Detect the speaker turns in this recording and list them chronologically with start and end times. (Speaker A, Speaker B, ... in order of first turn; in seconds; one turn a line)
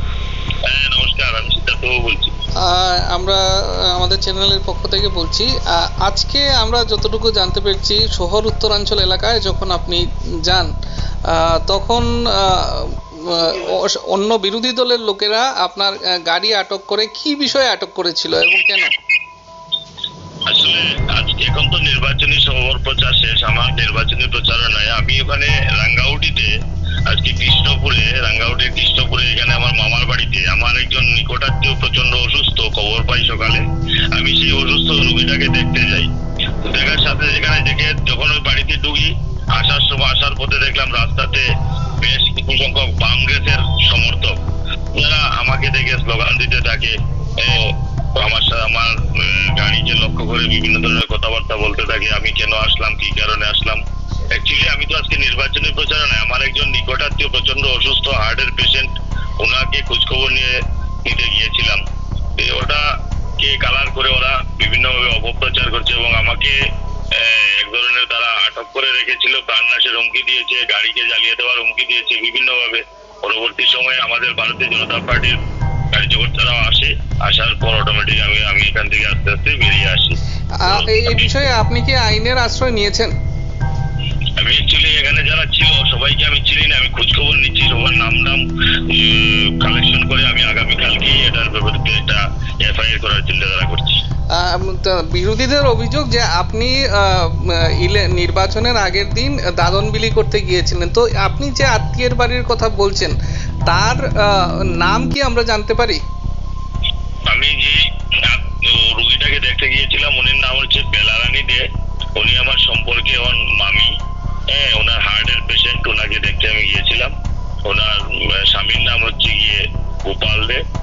Speaker A: 0.6-2.3
Speaker B: 2.6-10.7
Speaker B: 11.2-18.9
Speaker A: 20.5-26.5
Speaker A: 27.1-36.1
Speaker A: 36.6-41.5
Speaker A: 42.0-44.4
Speaker A: 45.0-53.8
Speaker A: 54.3-60.5
Speaker A: 61.0-61.8
Speaker A: 62.4-62.8
Speaker A: 63.4-66.6
Speaker A: 67.1-75.3
Speaker A: 75.9-81.4
Speaker B: 80.6-83.1
Speaker A: 84.4-94.0
Speaker B: 94.3-106.0
Speaker A: 107.3-113.9
Speaker A: 114.5-117.1
Speaker A: 117.7-120.6